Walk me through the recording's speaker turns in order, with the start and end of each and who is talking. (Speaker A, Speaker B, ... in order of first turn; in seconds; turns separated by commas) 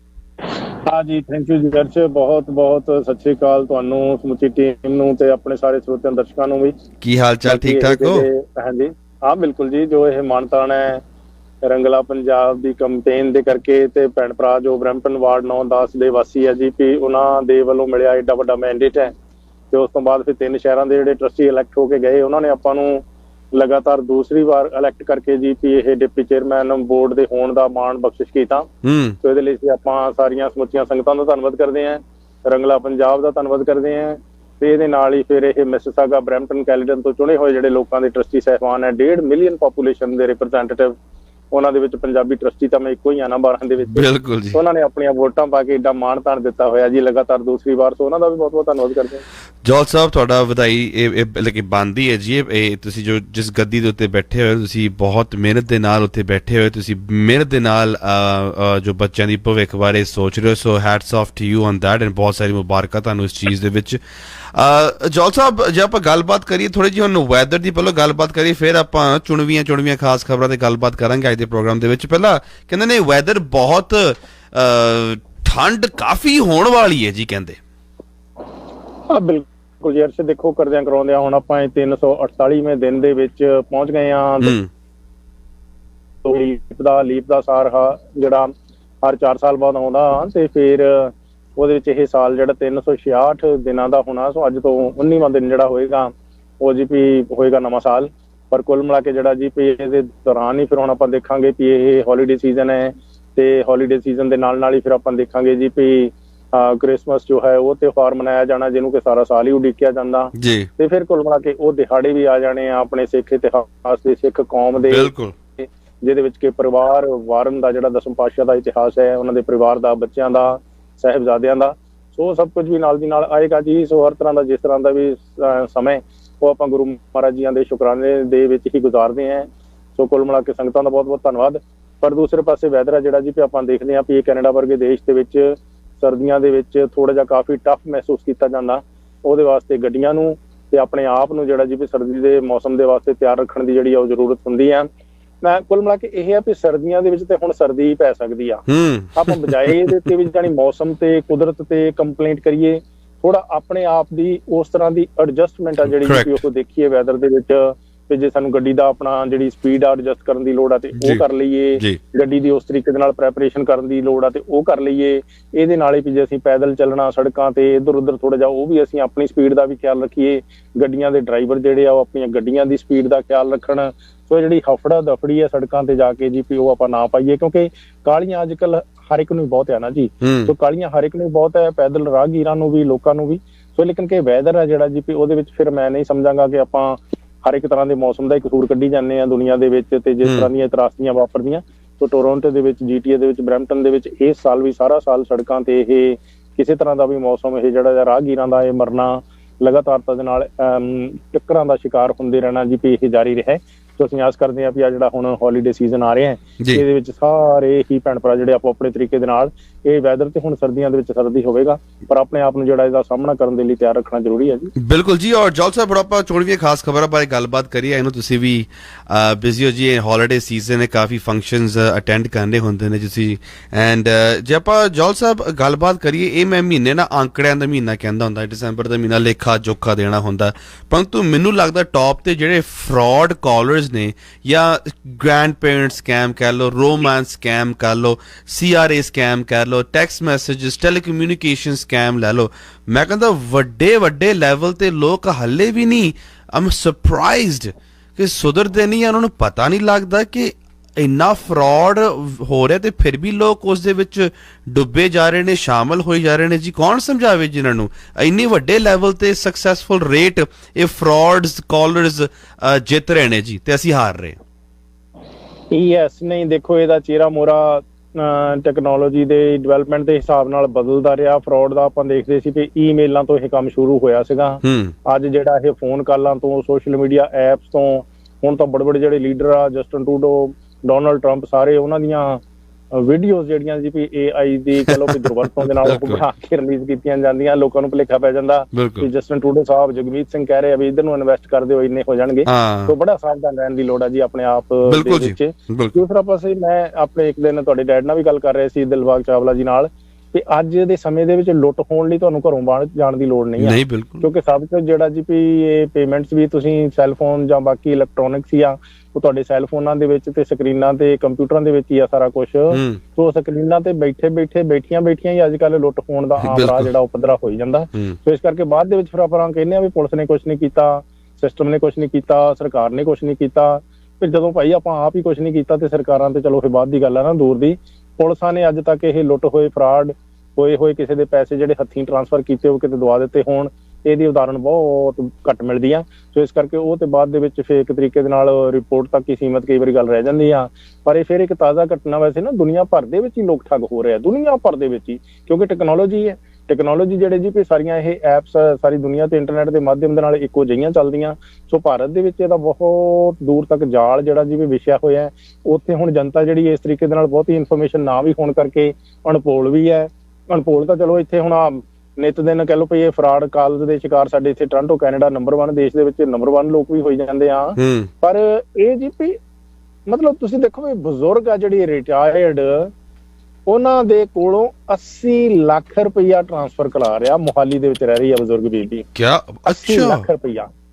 Speaker A: 0.9-6.7, Speaker B: 7.0-8.3, Speaker A: 7.5-11.0, Speaker A: 11.6-19.1, Speaker A: 19.7-23.0, Speaker A: 23.5-28.7, Speaker B: 28.8-29.2, Speaker A: 29.2-40.9, Speaker A: 41.5-49.2, Speaker B: 43.8-44.6, Speaker B: 49.6-64.0, Speaker B: 64.5-77.6, Speaker A: 79.1-84.5, Speaker B: 84.4-84.7, Speaker A: 86.2-88.5, Speaker A: 89.0-144.9, Speaker B: 110.3-110.7, Speaker B: 114.8-115.3, Speaker A: 145.4-148.6, Speaker B: 148.7-149.6, Speaker A: 149.2-214.7, Speaker B: 155.8-156.4, Speaker B: 161.0-161.2, Speaker B: 180.2-180.5, Speaker B: 190.2-190.5, Speaker B: 214.8-264.4, Speaker A: 265.7-282.4, Speaker B: 274.6-274.9, Speaker A: 282.9-369.4, Speaker B: 285.6-286.2, Speaker B: 288.7-289.1, Speaker B: 292.4-292.9, Speaker B: 294.9-296.0, Speaker B: 303.6-304.3, Speaker B: 312.7-313.0, Speaker B: 316.4-316.9, Speaker B: 367.8-368.1, Speaker A: 370.1-372.9, Speaker A: 373.7-379.1, Speaker B: 379.1-380.2, Speaker A: 379.7-380.7